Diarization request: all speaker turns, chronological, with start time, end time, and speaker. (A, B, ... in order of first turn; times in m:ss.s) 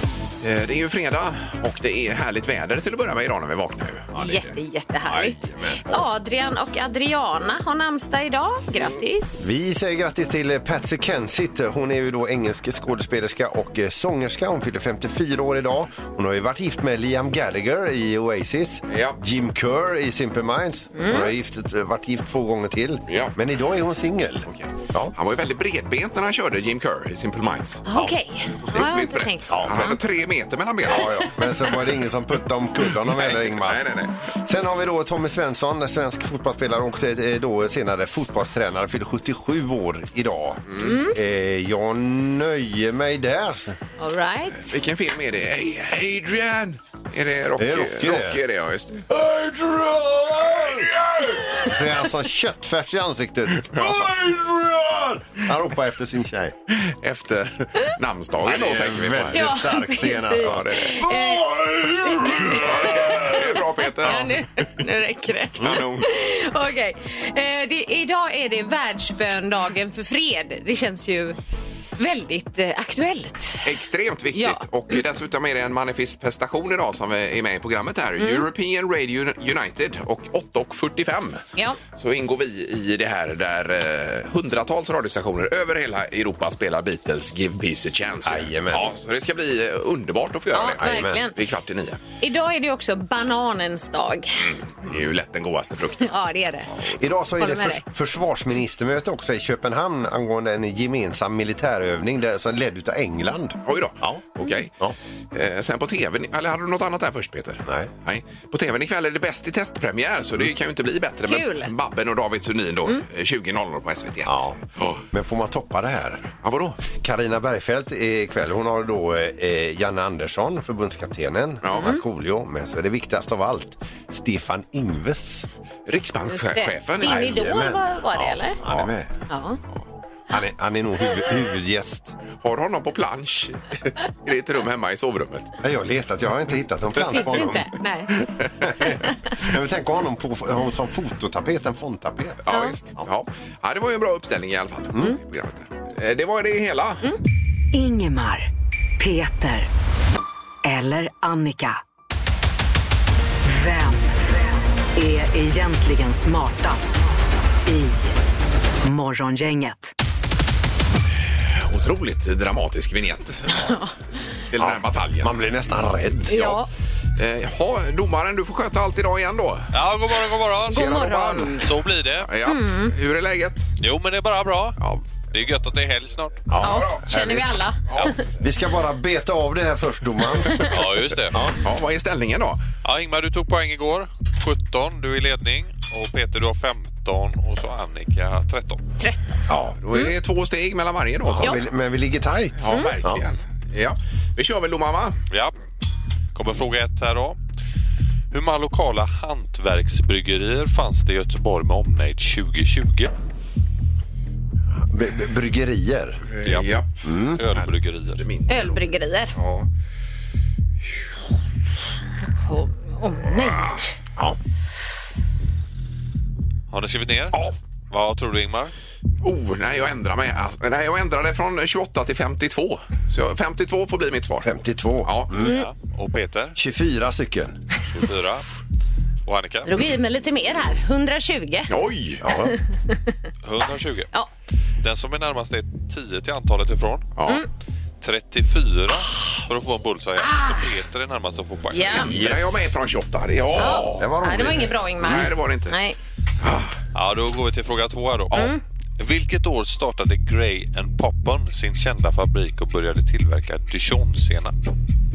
0:00.4-0:04.4 A
0:04.2-0:09.5 B
0:05.1-0:06.0 C
0:09.4-0:25.1 C
0:18.9-0:19.2 A
0:21.0-0:21.3 B
0:23.1-0:23.4 A
0:24.5-0:27.8 A
0:27.9-0:30.0 B
0:27.9-0:28.2 C
0:28.7-0:31.2 A
0:29.5-0:30.0 C
0:30.8-0:43.8 C
0:33.1-0:34.2 A
0:40.7-0:41.0 A
0:40.8-0:41.2 B
0:44.0-0:44.7 B
0:44.6-0:49.1 A
0:47.6-0:48.4 C
0:49.1-0:51.0 C
0:51.5-0:56.6 C
0:53.7-0:54.1 A
0:56.7-0:59.4 A
0:58.4-1:03.4 C
0:59.3-1:11.4 B
1:00.4-1:01.0 A
1:02.3-1:04.6 A
1:05.6-1:06.1 A
1:12.0-1:13.7 B
1:13.6-1:32.0 A
1:14.4-1:15.0 B
1:18.2-1:18.5 B
1:28.2-1:28.9 C
1:30.5-1:31.4 B
1:30.8-1:31.2 C
1:32.2-1:34.3 B
1:34.4-1:36.2 A
1:36.0-1:36.7 B
1:36.8-1:45.0 C
1:37.4-1:37.8 B
1:43.6-1:44.7 A
1:45.3-1:55.0 A
1:47.6-1:47.9 C
1:51.3-1:51.7 B
1:54.3-1:54.6 C
1:55.1-1:56.3 C
1:56.4-1:56.8 A
1:57.0-2:05.5 C
2:01.6-2:01.9 A
2:01.8-2:02.0 B
2:05.9-2:07.3 A
2:06.3-2:08.6 B
2:07.0-2:09.1 C
2:09.3-2:09.6 B
2:10.3-2:12.2 C
2:12.4-2:15.5 A
2:15.6-2:17.7 C
2:17.0-2:17.4 A
2:17.1-2:18.1 B
2:18.2-2:18.9 A
2:18.6-2:22.4 C
2:18.8-2:19.1 B
2:22.4-2:27.1 A
2:22.5-2:22.8 B
2:27.7-2:29.7 D
2:30.6-2:31.8 D
2:33.4-2:34.2 D
2:35.0-2:37.0 D
2:37.6-2:38.2 D
2:38.8-2:39.9 D
2:41.5-2:43.7 A
2:43.5-2:43.9 B
2:44.5-2:45.4 A
2:44.6-2:46.5 C
2:46.3-2:46.7 B
2:47.2-2:49.7 A
2:49.7-2:52.3 E
2:50.7-2:51.7 B
2:50.7-2:51.6 A
2:52.2-2:53.7 A
2:52.5-2:52.9 B
2:53.8-2:54.8 E
2:55.3-2:56.4 E
2:56.5-2:57.5 C
2:56.6-2:57.4 A
2:56.6-2:58.2 B
2:58.4-3:00.7 C
3:00.4-3:00.7 B
3:00.7-3:01.5 E
3:01.6-3:02.7 A
3:02.8-3:08.8 E
3:09.0-3:09.4 B
3:09.5-3:09.9 C
3:09.8-3:11.6 A
3:11.3-3:13.2 C
3:12.6-3:15.2 A
3:16.4-3:17.4 E
3:18.3-3:23.1 E
3:24.8-3:26.2 C
3:26.4-3:26.9 A
3:26.4-3:26.8 E
3:27.0-3:27.4 C
3:27.3-3:28.2 E
3:27.5-3:28.8 A
3:28.5-3:29.4 B
3:29.4-3:29.7 A
3:32.4-3:33.9 B
3:33.5-3:33.8 A
3:36.7-3:37.4 E
3:37.9-3:38.7 E
3:39.2-3:44.5 A
3:44.4-3:45.5 C
3:45.0-3:45.3 A
3:45.3-3:46.6 E
3:45.4-3:45.7 B
3:46.6-3:47.6 C
3:47.9-3:48.4 E
3:49.3-3:49.7 E
3:49.6-3:51.7 B
3:51.7-3:52.2 A
3:52.2-3:52.6 C
3:53.4-3:54.1 E
3:54.8-3:57.1 E
3:57.2-3:57.4 A
3:58.0-4:02.0 E
4:00.2-4:00.7 B
4:01.7-4:02.1 B
4:02.0-4:02.8 C
4:02.0-4:04.5 A
4:03.6-4:06.0 B
4:03.7-4:05.2 C
4:05.0-4:05.8 A
4:06.4-4:06.7 A
4:07.0-4:14.5 E
4:08.3-4:08.6 B